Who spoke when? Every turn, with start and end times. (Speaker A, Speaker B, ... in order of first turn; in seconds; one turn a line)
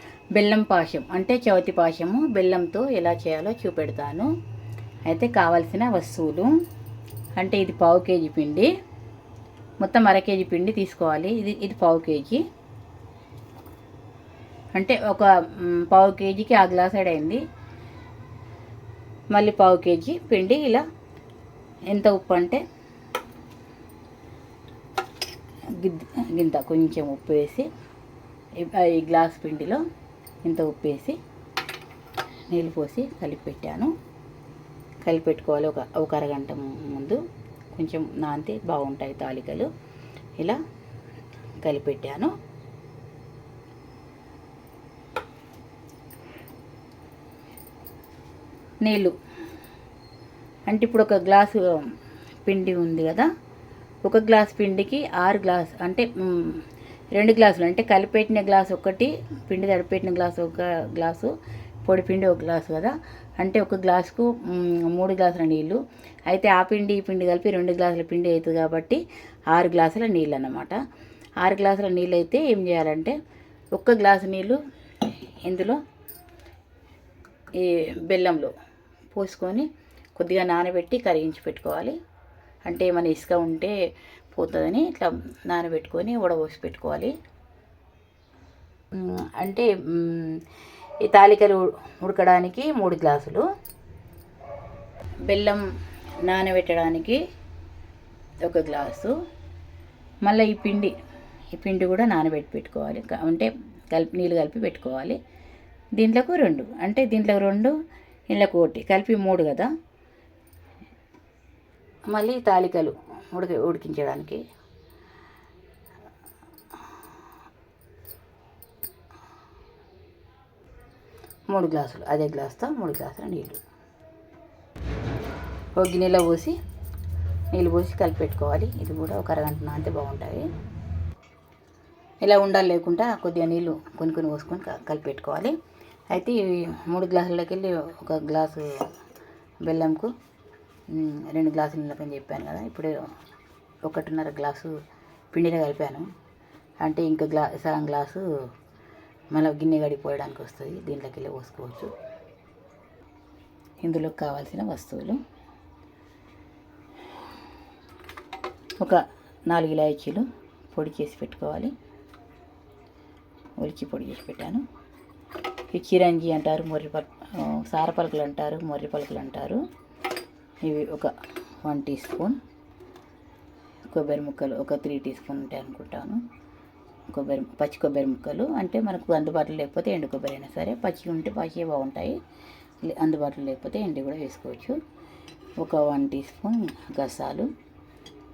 Speaker A: 0.3-4.3
Speaker A: 5.1-6.5
Speaker A: 7.4-8.7
Speaker A: 9.8-12.4
Speaker A: 14.7-17.4
Speaker A: 19.3-20.8
Speaker A: 21.9-22.6
Speaker A: 25.7-27.7
Speaker A: 28.6-29.8
Speaker A: 30.4-31.2
Speaker A: 32.5-33.9
Speaker A: 35.0-37.2
Speaker A: 37.7-39.7
Speaker A: 41.6-42.3
Speaker A: 48.8-49.2
Speaker A: 50.7-51.9
Speaker A: 52.4-53.3
Speaker A: 54.0-56.6
Speaker A: 57.1-61.3
Speaker A: 61.8-70.8
Speaker A: 71.4-73.2
Speaker A: 73.7-75.8
Speaker A: 77.5-78.5
Speaker A: 79.1-82.0
Speaker A: 82.7-83.8
Speaker A: 84.3-87.1
Speaker A: 88.9-90.4
Speaker A: 91.0-93.5
Speaker A: 95.2-95.6
Speaker A: 96.2-97.2
Speaker A: 98.4-99.2
Speaker A: 100.2-100.9
Speaker A: 101.5-105.2
Speaker A: 106.0-107.8
Speaker A: 108.3-109.7
Speaker A: 112.1-114.4
Speaker A: 121.5-123.6
Speaker A: 125.8-126.5
Speaker A: 127.5-130.5
Speaker A: 132.2-135.6
Speaker A: 136.1-138.7
Speaker A: 139.6-140.1
Speaker A: 140.9-142.9
Speaker A: 143.8-144.7
Speaker A: 145.3-146.1
Speaker A: 146.8-148.2
Speaker A: 149.3-151.9
Speaker A: 153.8-155.2
Speaker A: 158.8-161.7
Speaker A: 163.6-164.6
Speaker A: 165.7-169.6
Speaker A: 170.6-171.1
Speaker A: 171.6-172.4
Speaker A: 173.9-176.2
Speaker A: 177.1-182.2
Speaker A: 182.8-184.8
Speaker A: 185.6-187.5